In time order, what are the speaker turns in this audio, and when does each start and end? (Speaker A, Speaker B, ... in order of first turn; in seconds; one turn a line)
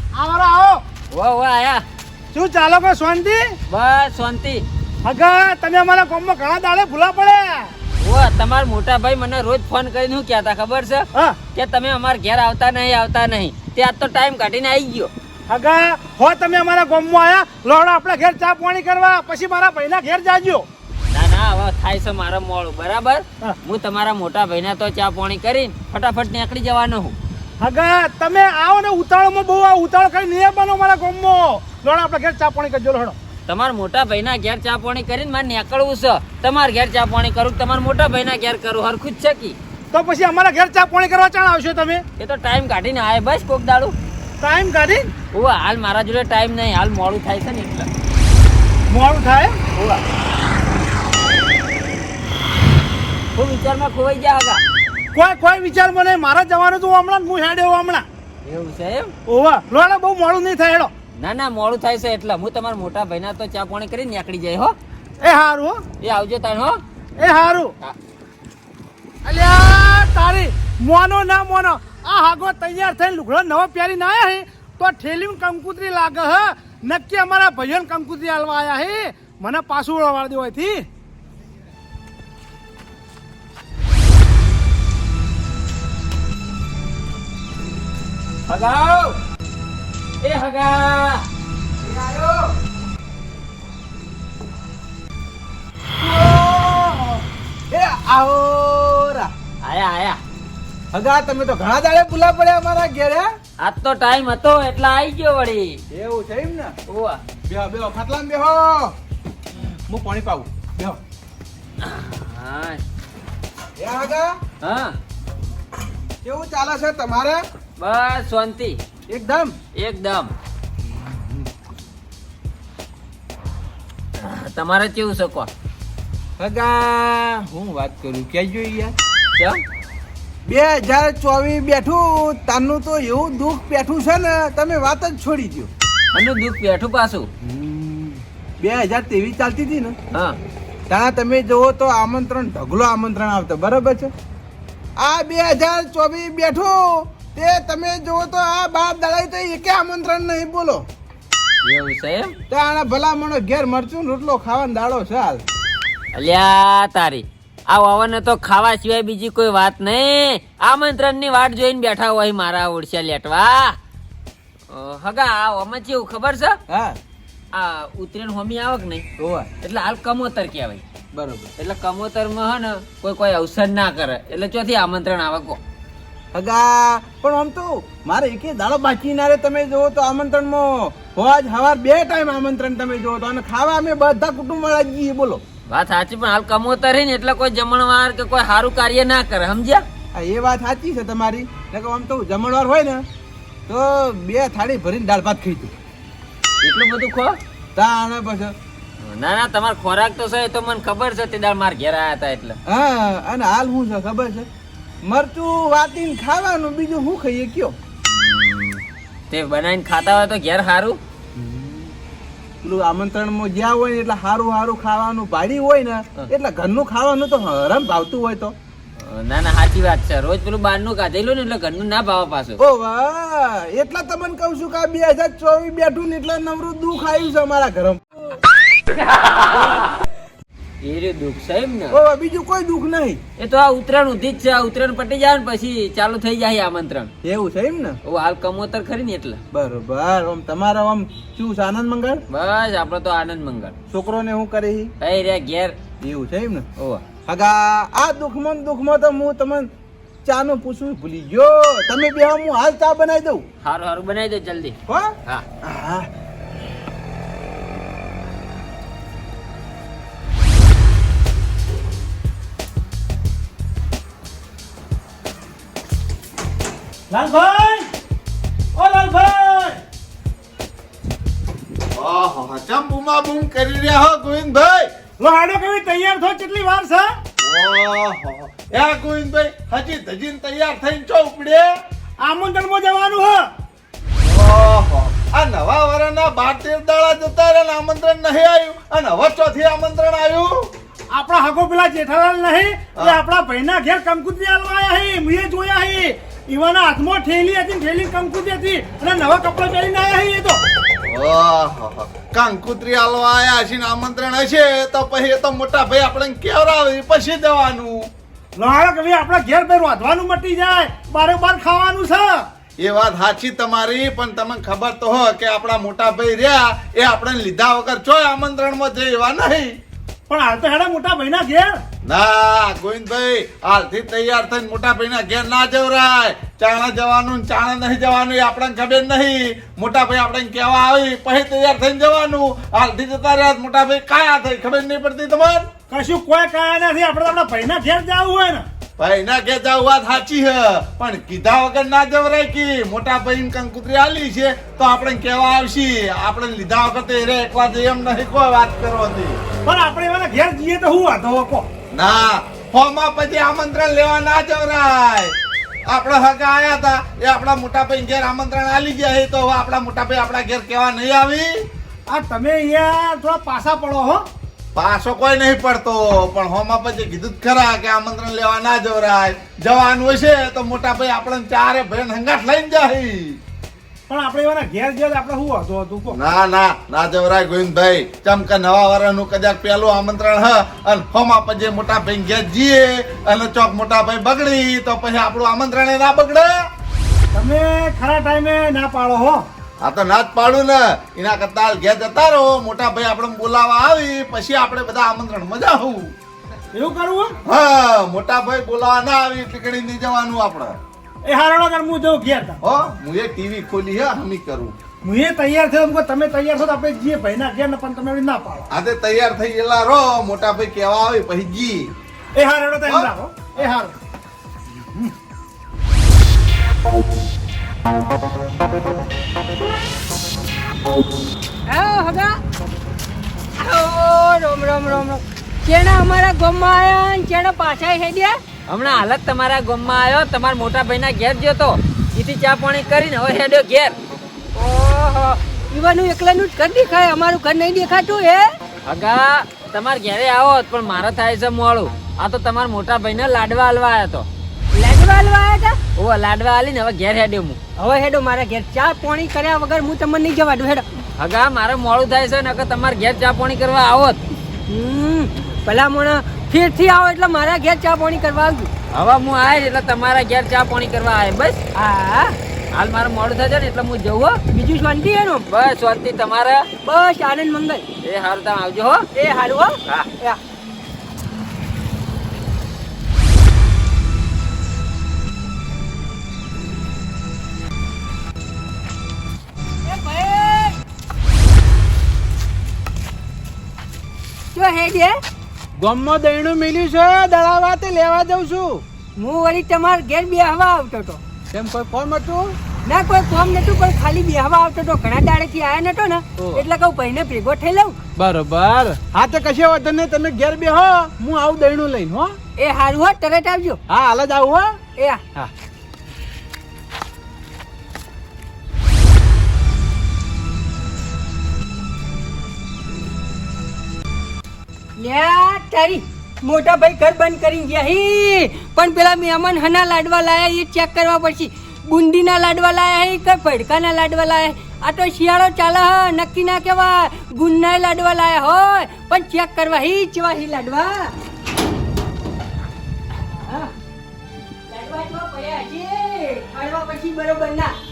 Speaker A: 0.1-0.8
Speaker B: 1.1-1.8
Speaker A: 2.3-3.5
Speaker B: 3.7-4.6
Speaker A: 5.0-7.7
Speaker B: 8.0-15.1
Speaker A: 15.5-20.6
Speaker B: 21.1-27.1
Speaker A: 27.6-33.1
Speaker B: 33.5-39.5
Speaker A: 39.9-42.0
Speaker B: 42.2-43.9
Speaker A: 44.4-45.1
Speaker B: 45.3-47.9
Speaker A: 48.9-49.6
Speaker B: 49.8-50.0
Speaker B: 53.3-54.6
Speaker A: 55.1-58.0
Speaker B: 58.4-59.1
Speaker A: 59.3-60.9
Speaker B: 61.2-64.7
Speaker A: 65.2-65.8
Speaker B: 66.0-66.8
Speaker A: 67.2-67.7
Speaker A: 69.2-80.8
Speaker B: 88.5-89.2
Speaker B: 90.2-91.2
Speaker C: 91.8-92.5
Speaker C: 96.0-99.3
Speaker B: 99.6-100.2
Speaker C: 100.9-103.3
Speaker B: 103.6-105.8
Speaker C: 105.9-106.8
Speaker B: 106.9-107.2
Speaker C: 107.4-108.9
Speaker C: 109.9-111.0
Speaker B: 111.8-112.8
Speaker C: 113.8-114.4
Speaker B: 114.6-115.0
Speaker C: 116.2-117.4
Speaker B: 117.8-118.8
Speaker C: 119.1-119.5
Speaker B: 119.8-120.3
Speaker C: 121.1-121.4
Speaker B: 124.2-125.5
Speaker C: 126.4-128.9
Speaker B: 129.3-129.6
Speaker C: 130.4-135.7
Speaker B: 136.1-137.3
Speaker C: 137.4-140.0
Speaker B: 140.1-140.4
Speaker C: 140.9-144.1
Speaker C: 145.0-150.8
Speaker B: 151.6-152.3
Speaker C: 152.5-155.4
Speaker B: 156.1-163.8
Speaker B: 164.7-166.6
Speaker C: 166.7-167.0
Speaker B: 167.5-169.0
Speaker C: 169.2-169.5
Speaker B: 169.6-170.8
Speaker C: 171.1-171.5
Speaker B: 171.6-175.6
Speaker C: 176.3-185.4
Speaker B: 185.7-189.8
Speaker C: 190.1-193.0
Speaker C: 193.7-195.7
Speaker B: 196.6-197.4
Speaker C: 197.7-198.5
Speaker B: 199.0-202.6
Speaker C: 202.7-204.5
Speaker C: 205.0-207.8
Speaker B: 208.1-211.0
Speaker C: 211.3-211.9
Speaker C: 212.6-218.5
Speaker B: 219.0-222.6
Speaker C: 222.6-228.1
Speaker B: 228.9-229.9
Speaker B: 230.8-232.0
Speaker C: 231.9-233.2
Speaker B: 233.4-237.1
Speaker C: 237.2-238.0
Speaker B: 238.0-239.4
Speaker C: 239.5-242.2
Speaker B: 242.3-243.7
Speaker C: 243.9-244.9
Speaker B: 245.0-245.7
Speaker C: 246.0-246.7
Speaker B: 246.8-247.0
Speaker C: 247.2-249.7
Speaker C: 250.2-253.4
Speaker B: 253.6-255.4
Speaker C: 254.9-256.1
Speaker A: 267.1-267.9
Speaker A: 268.8-269.8
Speaker D: 271.9-274.9
Speaker A: 275.2-277.1
Speaker D: 277.4-281.7
Speaker A: 282.2-283.4
Speaker D: 284.2-290.7
Speaker A: 291.1-300.6
Speaker D: 301.1-308.1
Speaker A: 308.6-312.4
Speaker D: 312.8-319.7
Speaker A: 320.3-321.8
Speaker D: 322.0-335.7
Speaker A: 335.9-338.6
Speaker D: 339.0-349.4
Speaker A: 349.6-351.6
Speaker D: 351.9-355.3
Speaker D: 355.9-361.7
Speaker A: 362.1-364.2
Speaker D: 364.7-373.4
Speaker A: 374.1-376.2
Speaker D: 376.1-386.5
Speaker A: 387.3-389.4
Speaker D: 389.8-396.1
Speaker A: 396.7-397.4
Speaker D: 397.4-400.8
Speaker A: 401.2-402.6
Speaker D: 402.6-404.8
Speaker A: 405.0-408.7
Speaker D: 408.7-411.9
Speaker A: 412.3-413.9
Speaker E: 421.7-422.4
Speaker E: 423.6-428.4
Speaker B: 428.7-433.9
Speaker E: 434.5-438.5
Speaker B: 438.9-444.3
Speaker E: 444.7-445.8
Speaker B: 445.9-447.6
Speaker E: 447.8-450.9
Speaker B: 451.2-454.2
Speaker E: 454.7-458.7
Speaker B: 458.9-461.6
Speaker E: 461.7-462.4
Speaker B: 462.7-464.4
Speaker E: 464.5-465.5
Speaker B: 465.5-466.7
Speaker E: 466.8-467.9
Speaker B: 468.0-469.1
Speaker E: 469.1-470.4
Speaker E: 479.8-480.8
Speaker E: 484.5-485.2
Speaker C: 485.8-488.8
Speaker E: 489.2-491.2
Speaker C: 491.5-492.6
Speaker E: 492.8-498.0
Speaker C: 496.4-496.6
Speaker C: 498.2-502.4
Speaker E: 502.6-503.8
Speaker C: 503.9-504.8
Speaker E: 505.0-505.2
Speaker E: 515.0-531.1
Speaker E: 533.3-533.7
Speaker E: 534.7-537.7